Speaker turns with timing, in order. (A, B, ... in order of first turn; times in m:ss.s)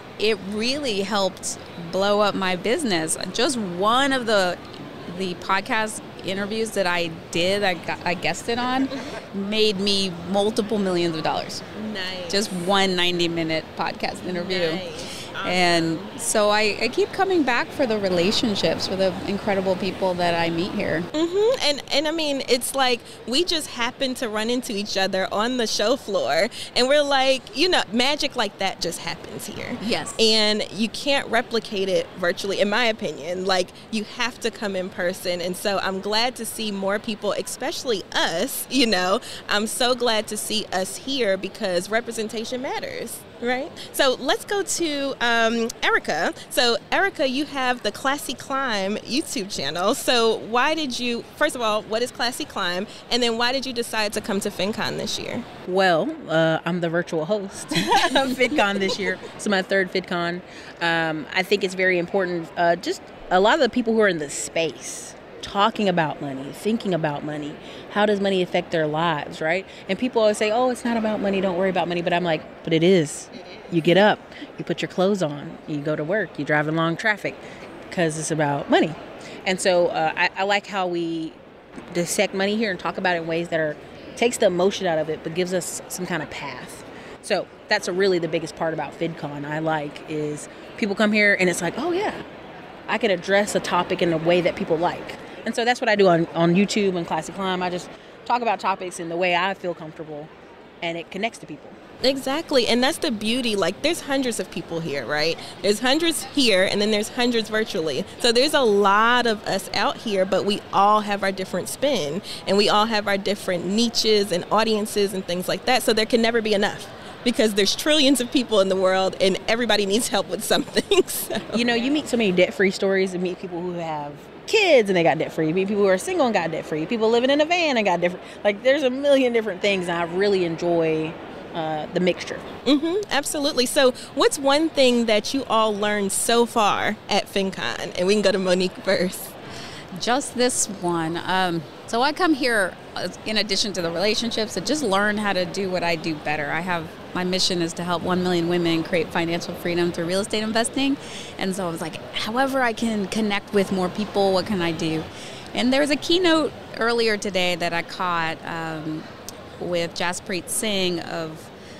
0:00.2-0:11.6 A
0:11.7-0:12.5 B
0:12.3-0:14.8 A
0:14.2-0:16.0 B
0:15.4-0:21.1 A
0:21.1-0:55.4 B
0:29.8-0:30.2 A
0:55.7-1:21.4 C
1:21.9-1:32.2 C
1:32.9-1:40.3 C
1:40.8-1:41.8 C
1:42.0-2:01.7 B
2:01.5-2:12.4 C
2:12.6-2:19.3 B
2:19.9-2:39.0 A
2:39.6-2:41.5 A